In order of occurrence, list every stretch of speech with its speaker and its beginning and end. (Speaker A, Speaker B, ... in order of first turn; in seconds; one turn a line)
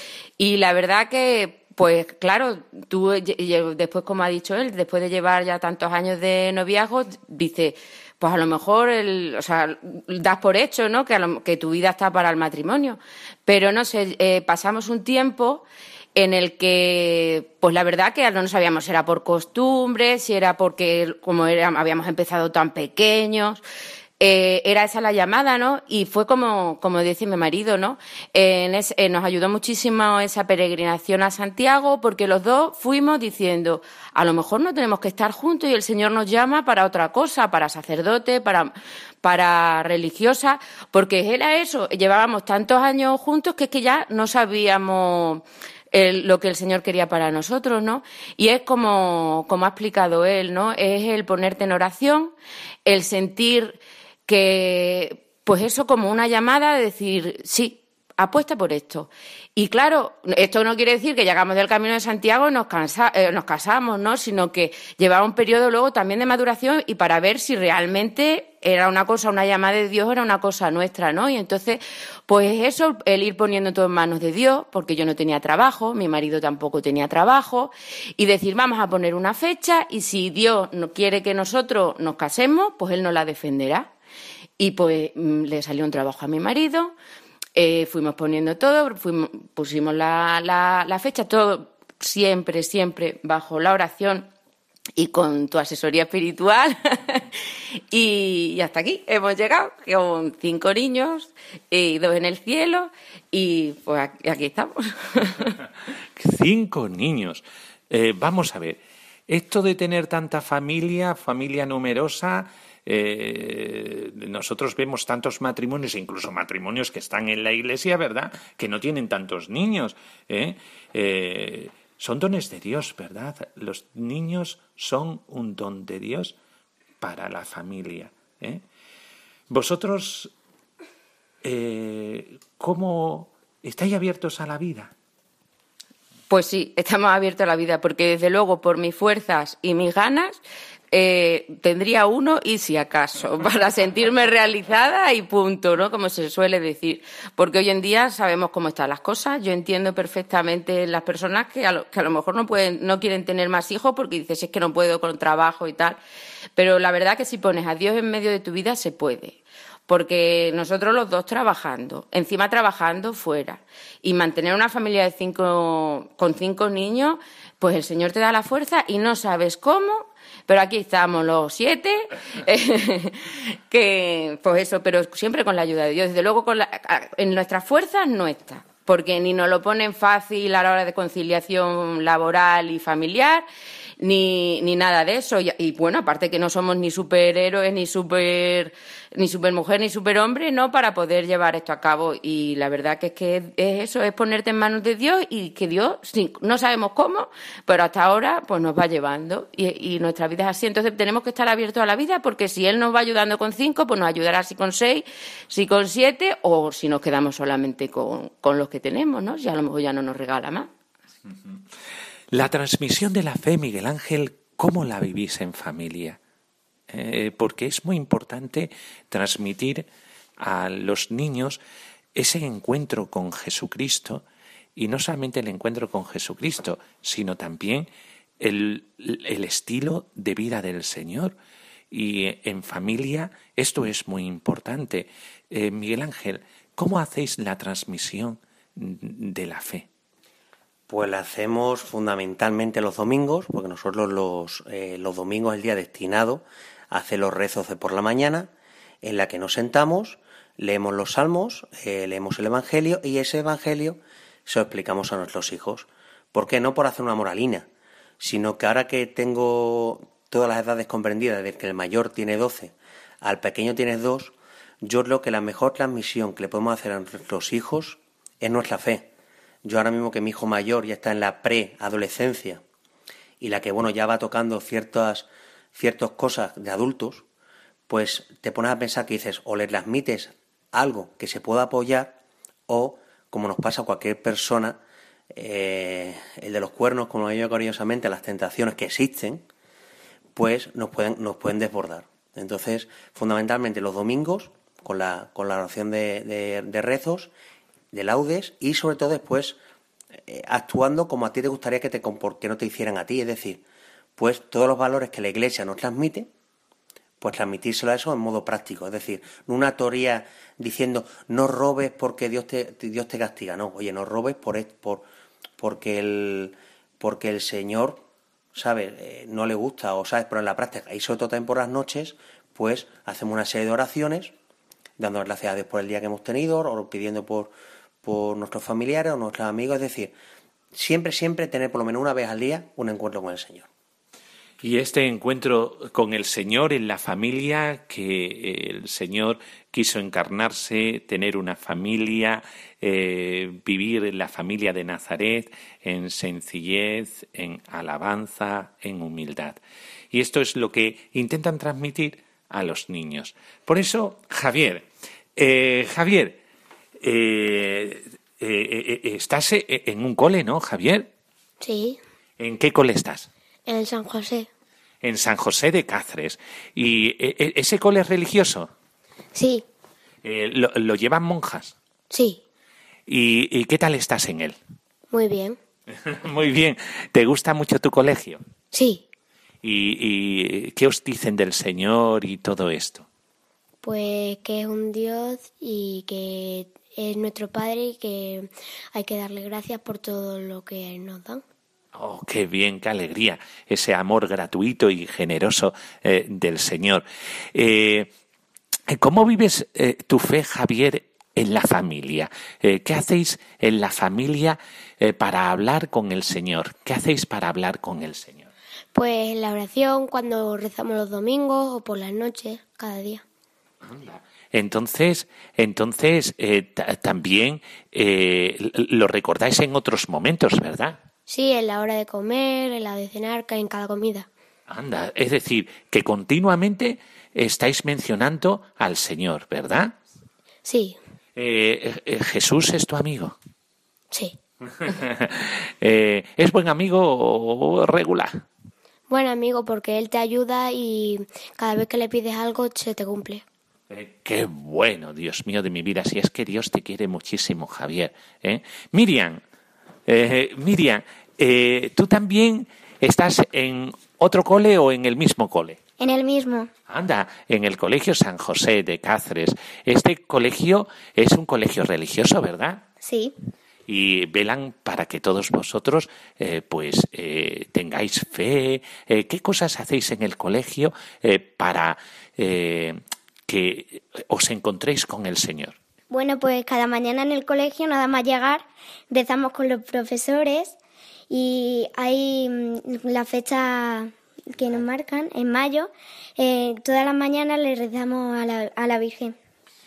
Speaker A: 0.4-23.6
Speaker A: 24.2-52.3
Speaker A: 52.9-83.9
Speaker A: 84.6-87.0
Speaker A: 87.5-94.3
Speaker A: 95.0-97.2
Speaker A: 97.9-105.5
Speaker B: 106.2-126.3
Speaker B: 127.0-128.6
Speaker B: 129.5-130.3
Speaker B: 131.4-134.9
Speaker A: 136.3-140.4
Speaker A: 140.9-156.0
Speaker A: 156.6-183.4
Speaker A: 184.0-210.7
Speaker B: 212.3-216.2
Speaker B: 216.9-219.9
Speaker B: 220.4-221.6
Speaker B: 222.1-224.2
Speaker B: 224.8-227.9
Speaker B: 228.4-231.3
Speaker B: 231.9-239.9
Speaker C: 240.9-248.5
Speaker C: 249.0-257.7
Speaker C: 258.2-269.1
Speaker C: 269.6-272.6
Speaker C: 273.4-277.2
Speaker C: 277.9-284.8
Speaker C: 285.3-289.4
Speaker C: 290.4-297.3
Speaker C: 297.9-299.6
Speaker C: 300.3-303.6
Speaker C: 304.2-306.3
Speaker C: 307.2-315.1
Speaker C: 315.6-318.0
Speaker C: 318.5-324.3
Speaker C: 325.0-330.1
Speaker C: 330.7-333.7
Speaker B: 334.6-349.6
Speaker B: 350.1-356.4
Speaker B: 357.0-361.1
Speaker D: 361.6-362.0
Speaker B: 362.4-363.3
Speaker D: 363.7-364.5
Speaker B: 365.0-368.7
Speaker D: 369.3-369.6
Speaker B: 370.2-371.7
Speaker D: 372.1-372.4
Speaker B: 373.1-374.6
Speaker D: 375.1-375.6
Speaker B: 376.0-378.4
Speaker D: 378.7-379.0
Speaker B: 379.6-383.1
Speaker D: 383.8-391.4
Speaker B: 391.9-398.1
Speaker B: 398.9-408.5
Speaker D: 408.9-413.2
Speaker B: 413.8-421.0
Speaker D: 421.3-424.3
Speaker B: 424.7-429.9
Speaker D: 430.6-431.0
Speaker B: 431.4-433.4
Speaker B: 434.8-438.4
Speaker D: 439.1-443.4
Speaker B: 443.9-449.4
Speaker B: 450.1-455.8
Speaker E: 456.0-456.7
Speaker B: 456.9-462.8
Speaker E: 463.0-463.3
Speaker B: 463.9-475.8
Speaker E: 476.1-480.7
Speaker E: 481.3-489.4